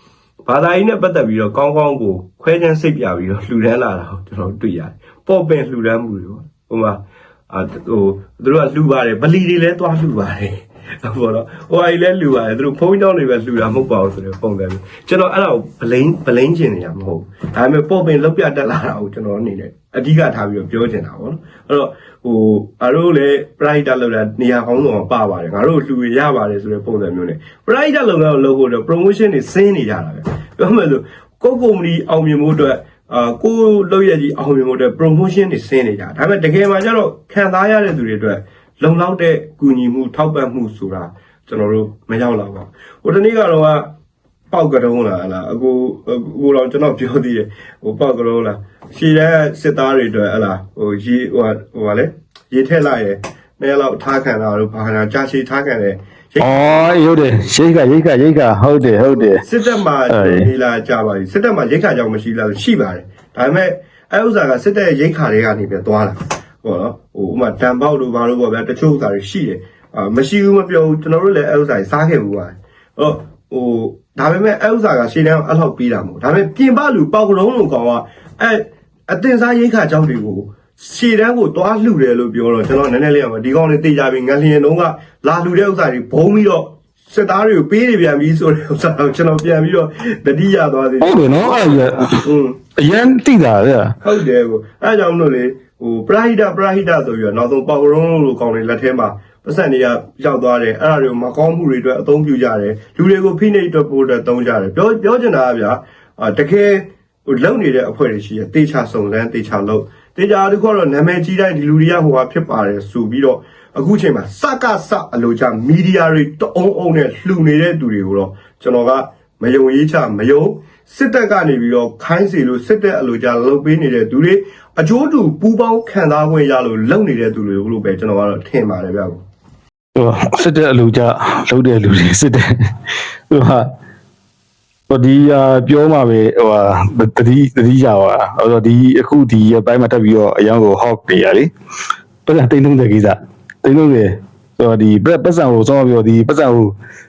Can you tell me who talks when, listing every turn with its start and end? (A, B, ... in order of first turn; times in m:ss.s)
0:00.4-0:43.9 A
0:44.5-0:56.9 A
0:56.4-0:59.4 B
0:59.4-1:32.6 A
1:00.1-1:00.5 B
1:31.0-1:32.2 B
1:32.8-1:34.0 B
1:34.0-2:09.2 A
2:10.0-2:12.5 B
2:13.3-2:13.7 B
2:14.9-2:21.5 B
2:22.2-2:26.7 B